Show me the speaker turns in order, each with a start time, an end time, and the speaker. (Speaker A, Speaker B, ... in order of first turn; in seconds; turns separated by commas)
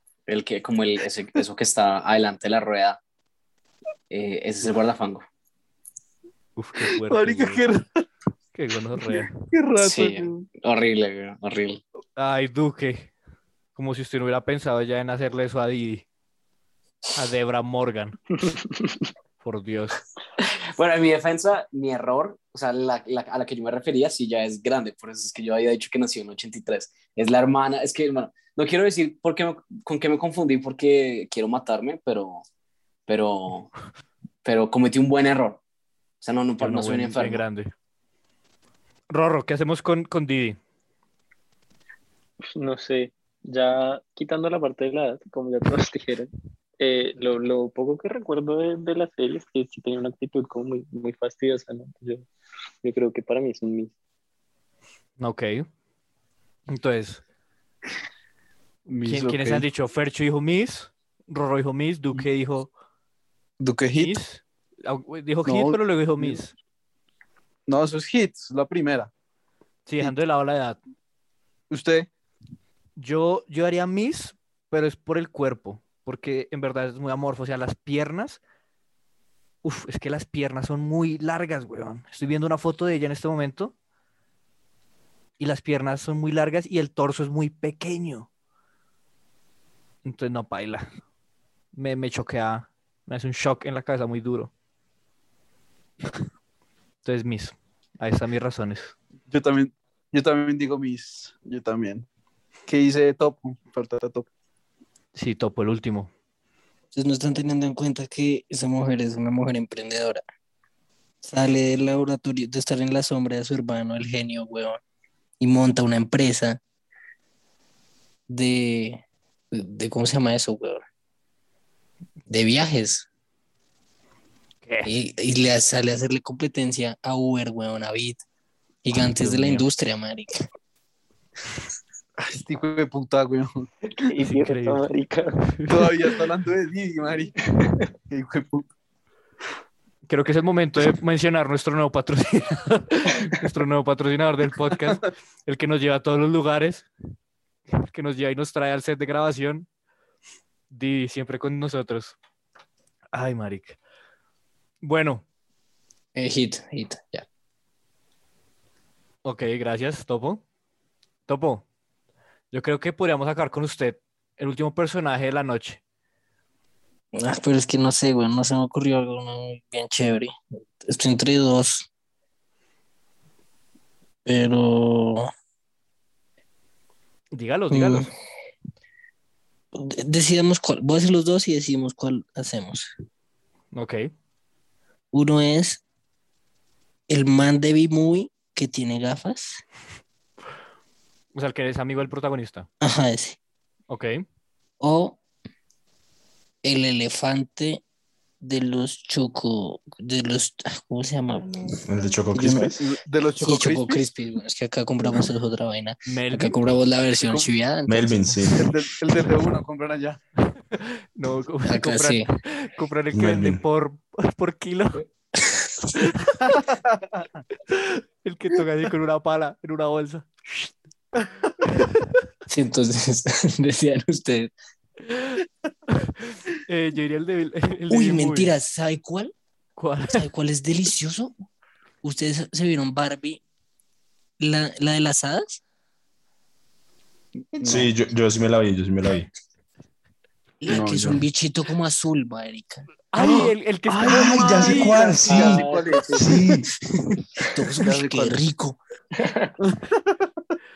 Speaker A: 0.3-3.0, Speaker A: 4.1-5.2, Speaker B: 6.6-7.6, Speaker C: 7.0-8.0, Speaker B: 8.5-9.3, Speaker C: 9.1-10.4, Speaker A: 9.8-11.8, Speaker B: 12.2-13.1, Speaker B: 13.8-16.0, Speaker B: 17.1-18.2, Speaker D: 18.5-19.0, Speaker B: 19.4-20.0, Speaker A: 20.8-32.4, Speaker A: 33.1-33.7, Speaker A: 34.4-35.6, Speaker A: 36.2-37.4, Speaker B: 36.6-37.7, Speaker B: 39.1-40.6, Speaker D: 42.5-52.3, Speaker D: 52.8-53.9, Speaker B: 55.2-55.7, Speaker B: 56.7-57.2, Speaker C: 58.9-59.6, Speaker B: 59.0-62.7, Speaker C: 63.6-64.2, Speaker B: 63.9-66.5, Speaker C: 65.5-66.4, Speaker C: 67.7-69.1, Speaker B: 69.8-70.8, Speaker C: 71.7-72.1, Speaker B: 73.0-78.4, Speaker B: 79.6-83.7, Speaker B: 85.4-88.3, Speaker B: 90.0-90.9, Speaker B: 91.7-94.5, Speaker B: 97.0-98.9, Speaker C: 99.3-102.0, Speaker C: 102.7-104.3, Speaker B: 105.1-106.1, Speaker E: 106.9-110.2, Speaker E: 111.2-114.8, Speaker E: 115.4-116.6, Speaker E: 118.3-120.8, Speaker E: 122.3-123.1, Speaker B: 124.6-124.9, Speaker E: 124.8-128.2, Speaker E: 128.8-130.4, Speaker B: 129.1-129.7, Speaker C: 132.2-133.7, Speaker D: 134.0-135.4, Speaker B: 134.2-134.8, Speaker B: 135.5-135.9, Speaker C: 135.7-137.3, Speaker C: 138.1-138.7, Speaker B: 140.1-146.9, Speaker B: 147.7-149.7, Speaker B: 150.7-152.2, Speaker B: 153.1-153.8, Speaker B: 154.8-155.2, Speaker E: 156.1-157.2, Speaker B: 159.2-160.4, Speaker B: 161.3-161.6, Speaker B: 162.5-165.8, Speaker E: 167.1-171.9, Speaker E: 174.2-175.3, Speaker B: 177.3-178.1, Speaker E: 177.7-178.1, Speaker E: 179.7-182.9, Speaker B: 183.7-184.1, Speaker E: 185.1-185.8, Speaker E: 187.1-189.6, Speaker B: 191.3-192.7, Speaker E: 192.8-193.4, Speaker B: 193.9-194.2, Speaker E: 194.8-195.2, Speaker E: 196.6-197.8, Speaker E: 198.4-201.8, Speaker F: 201.8-202.8, Speaker E: 202.3-202.7, Speaker C: 202.8-204.0, Speaker E: 203.4-208.2, Speaker B: 206.1-206.6, Speaker F: 207.9-208.7, Speaker C: 208.6-210.2, Speaker B: 210.5-215.0, Speaker E: 211.6-212.2, Speaker F: 213.1-213.6, Speaker E: 215.4-215.7, Speaker B: 216.0-216.6, Speaker C: 216.6-217.2, Speaker B: 217.7-220.7, Speaker B: 221.6-222.0, Speaker E: 222.5-224.5, Speaker B: 225.1-225.4, Speaker B: 225.9-228.5, Speaker E: 227.9-229.3, Speaker B: 229.8-230.2, Speaker E: 230.1-231.3, Speaker E: 232.0-233.4, Speaker E: 234.4-235.6, Speaker C: 237.4-237.9, Speaker F: 237.6-239.3, Speaker E: 240.6-242.8, Speaker C: 240.7-241.2, Speaker B: 243.1-245.0, Speaker F: 243.2-246.7, Speaker C: 243.8-246.4, Speaker D: 245.2-246.3, Speaker E: 247.0-248.8, Speaker C: 247.8-248.4, Speaker D: 249.2-249.5, Speaker C: 249.6-250.2